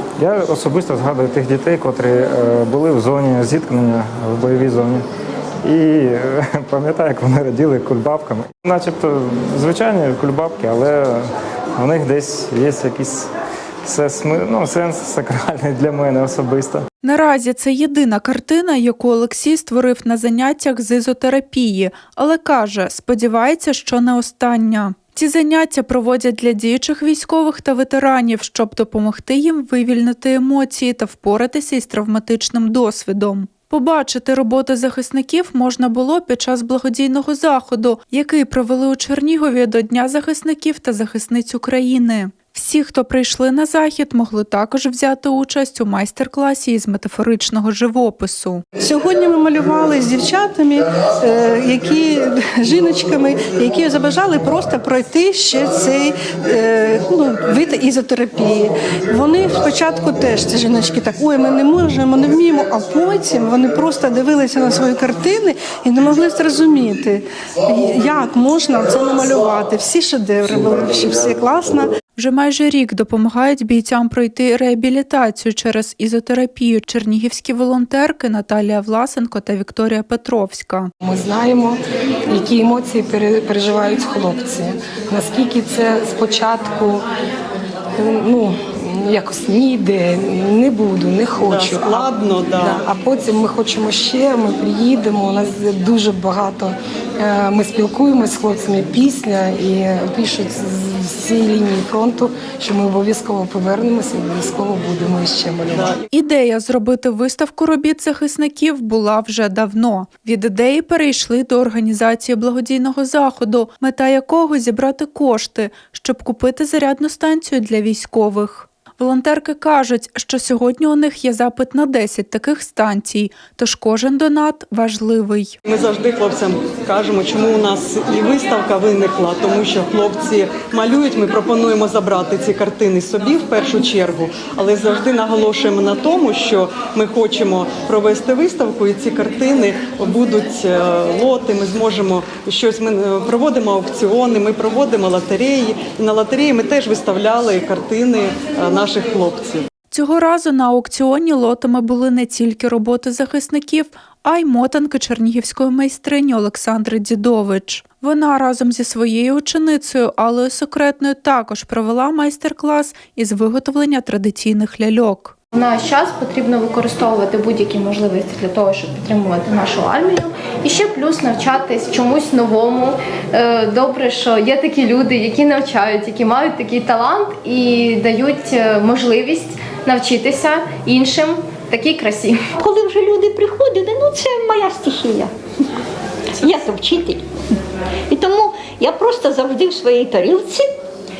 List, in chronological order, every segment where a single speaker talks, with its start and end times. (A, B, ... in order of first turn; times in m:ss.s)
0:00.2-0:05.0 A
0:05.6-0:11.2 A
0:11.8-0:13.3 A
0:13.8-0:16.9 A
0:17.0-0:48.6 B
0:48.8-1:11.9 C
1:12.2-1:20.9 B
1:21.0-1:27.0 D
1:28.0-1:46.0 D
1:31.4-1:32.8 E
1:46.1-2:05.6 B
2:05.7-2:29.6 E
2:29.9-2:45.4 B
2:45.5-3:02.4 F
3:02.6-3:05.3 G
3:06.4-3:07.2 G
3:08.1-3:10.7 G